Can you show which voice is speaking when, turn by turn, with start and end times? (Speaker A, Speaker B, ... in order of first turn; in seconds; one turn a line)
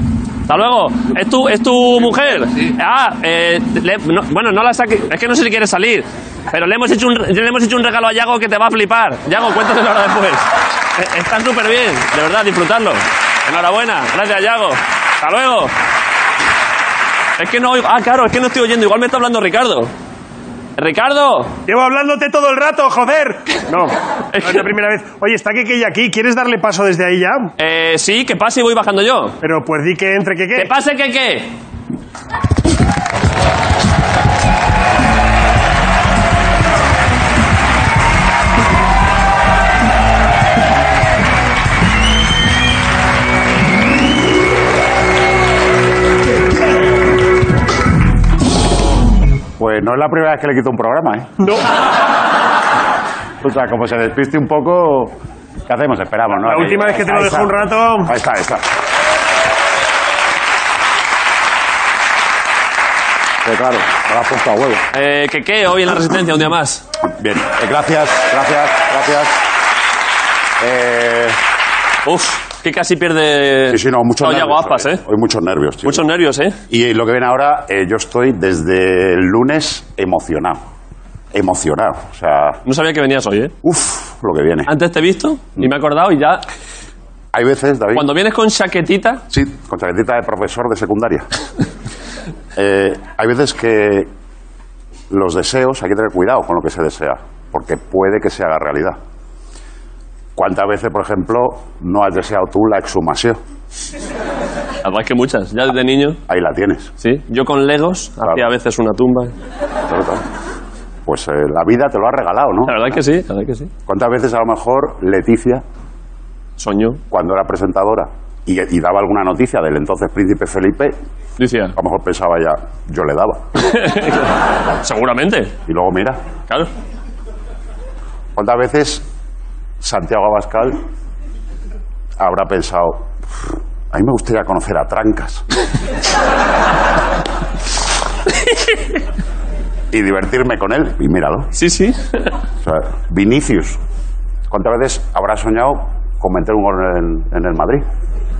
Speaker A: 0.5-15.7
Speaker A: 17.4-19.9
Speaker A: 20.8-21.5
Speaker B: 21.7-27.5
Speaker A: 24.3-24.7
Speaker A: 27.6-29.4
Speaker B: 29.4-30.7
Speaker A: 30.5-31.6
Speaker C: 49.6-51.3
Speaker B: 51.4-51.7
Speaker C: 53.4-55.1
Speaker C: 55.7-58.6
Speaker B: 56.4-58.1
Speaker C: 63.4-64.8
Speaker A: 64.9-66.8
Speaker C: 67.1-69.3
Speaker C: 70.6-71.4
Speaker A: 72.0-75.0
Speaker C: 73.7-76.0
Speaker A: 75.8-76.6
Speaker C: 76.7-80.6
Speaker C: 81.3-82.6
Speaker A: 82.7-83.5
Speaker C: 83.6-84.7
Speaker A: 84.7-86.4
Speaker C: 87.3-88.1
Speaker A: 87.9-89.2
Speaker C: 89.3-91.2
Speaker C: 92.5-94.1
Speaker C: 95.1-99.0
Speaker C: 100.3-103.4
Speaker A: 104.8-106.2
Speaker C: 106.3-106.9
Speaker A: 107.0-109.3
Speaker C: 109.9-110.2
Speaker C: 111.0-112.8
Speaker A: 112.7-113.7
Speaker C: 113.9-115.6
Speaker A: 116.6-117.0
Speaker C: 117.1-121.0
Speaker A: 121.4-121.8
Speaker C: 121.8-123.4
Speaker A: 123.6-125.5
Speaker C: 125.7-126.2
Speaker C: 128.3-129.0
Speaker C: 129.8-130.8
Speaker C: 132.2-133.1
Speaker C: 133.9-135.4
Speaker C: 139.9-141.5
Speaker A: 141.5-142.3
Speaker C: 142.6-143.8
Speaker C: 144.5-147.8